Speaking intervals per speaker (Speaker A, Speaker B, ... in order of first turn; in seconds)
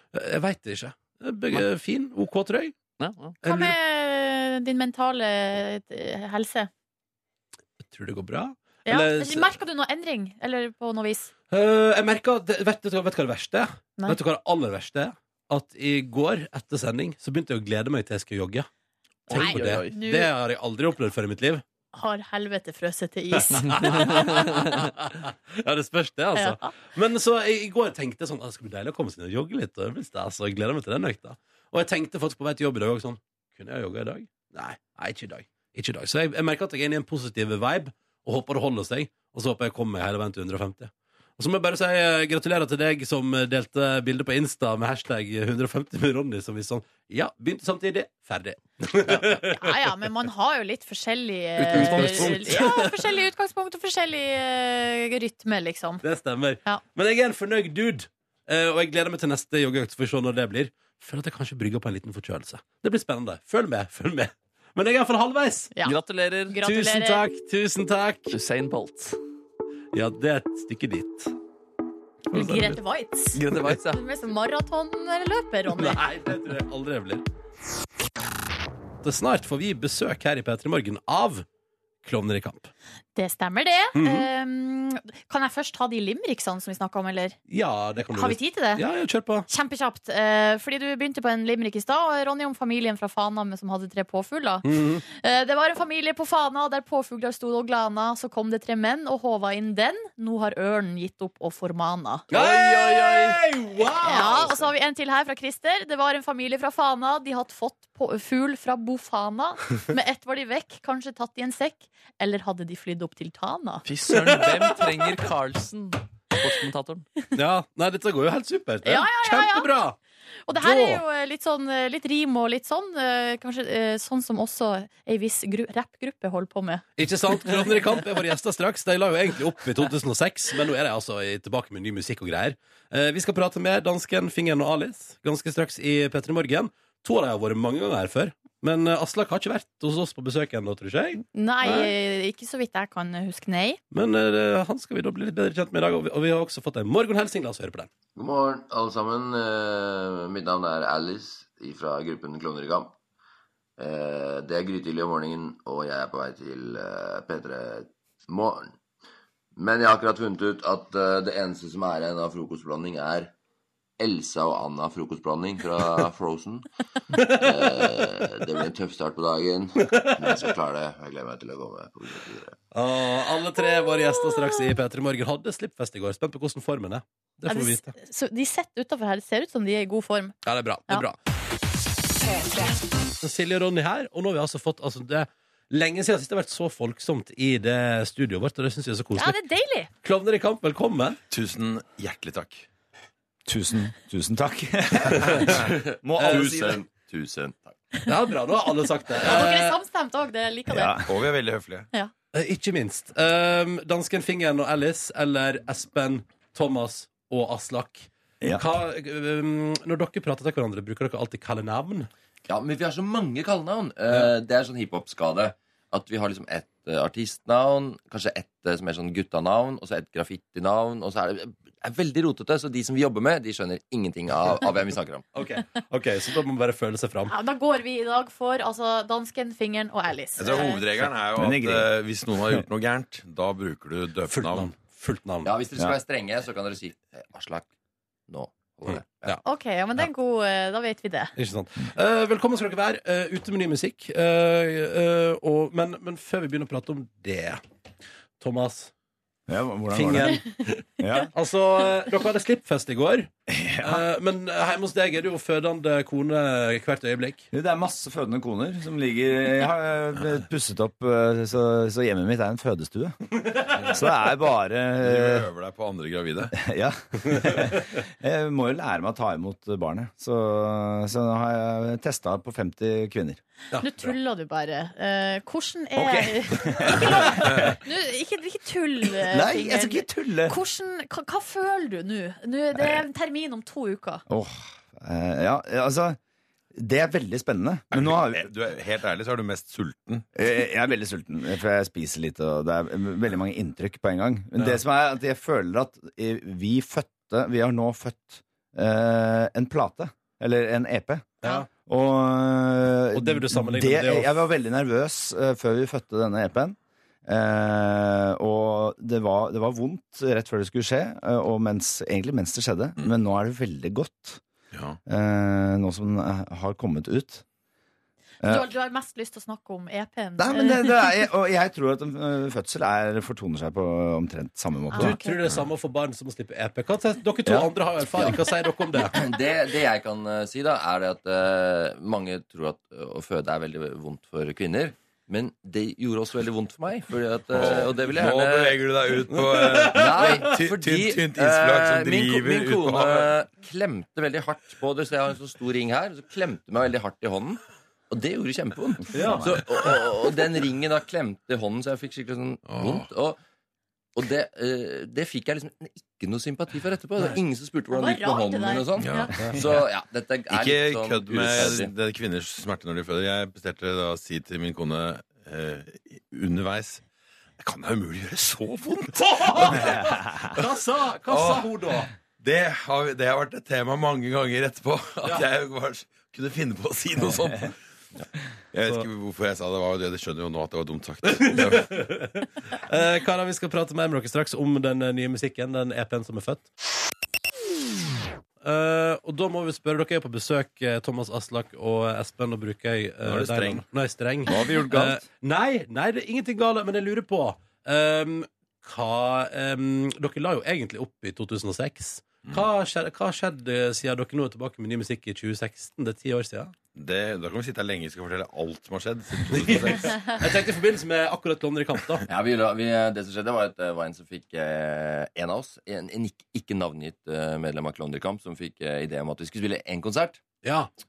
Speaker A: 0.1-2.8, 3.4-3.8, 7.8-9.6, 11.5-18.7, 19.3-21.6, 23.3-49.9, 51.7-53.1, 56.0-65.7, 66.6-68.3, 69.9-71.3, 72.3-72.7, 75.7-77.2, 79.0-81.4, 82.0-82.7, 84.0-84.3, 87.5-89.5, 94.6-95.0, 102.3-104.6, 114.1-114.8, 117.3-120.0, 120.5-121.0, 127.0-141.9, 143.9-147.9, 167.1-168.1, 169.8-170.4, 172.7-177.9, 180.4-181.2, 183.2-189.4, 190.0-191.2, 196.2-196.5, 198.1-199.8, 202.3-212.1, 225.3-227.3, 234.3-235.5, 241.4-247.6, 248.4-248.9, 249.9-250.5, 251.3-253.3, 253.8-257.4, 301.4-301.7, 303.1-304.4, 325.0-329.2, 339.8-340.4, 349.1-349.6, 369.4-372.1, 381.2-386.7, 388.6-406.7, 409.5-412.2, 420.6-420.9
Speaker B: 3.0-3.4, 19.3-19.9, 51.6-52.6, 65.8-66.6, 68.3-69.2, 72.3-72.8, 73.3-74.0, 102.3-103.4, 113.8-117.1
Speaker C: 3.4-6.7, 8.9-11.3, 19.3-20.3, 21.9-24.8, 26.4-26.7, 49.1-56.0, 66.5-67.2, 72.3-76.0, 83.2-87.4, 88.1-88.8, 89.5-102.3, 104.0-113.8, 118.8-119.7, 120.5-126.8, 141.3-143.8, 177.5-180.3, 189.2-189.9, 199.2-201.0, 227.3-230.8, 239.4-241.3, 273.8-284.2, 318.4-321.1, 324.9-325.4, 357.9-359.3
Speaker D: 148.1-152.9, 153.8-158.7, 159.6-163.3, 164.0-166.7, 167.3-172.6, 195.5-197.8, 212.5-225.3, 235.4-237.7, 238.3-239.4, 329.1-339.0, 339.8-353.4, 354.1-361.9, 412.3-420.4
Speaker E: 191.3-192.7, 201.1-201.9, 230.4-234.7, 265.0-266.5, 287.9-290.3, 314.7-315.0, 337.5-343.3, 352.6-353.1, 359.0-359.7, 360.5-367.0, 367.6-370.1, 371.3-371.7, 372.4-377.7, 378.7-382.0, 393.2-393.8, 406.9-410.4
Speaker F: 193.5-196.8, 200.7-201.1, 231.0-231.9, 249.5-250.5, 251.0-251.3, 253.5-254.1, 257.5-265.4, 266.6-273.4, 275.9-277.8, 279.2-280.6, 284.3-286.2, 286.7-288.5, 290.4-314.4, 315.1-317.4, 318.4-318.7, 320.4-325.2, 327.4-328.4, 349.1-349.5, 394.5-395.2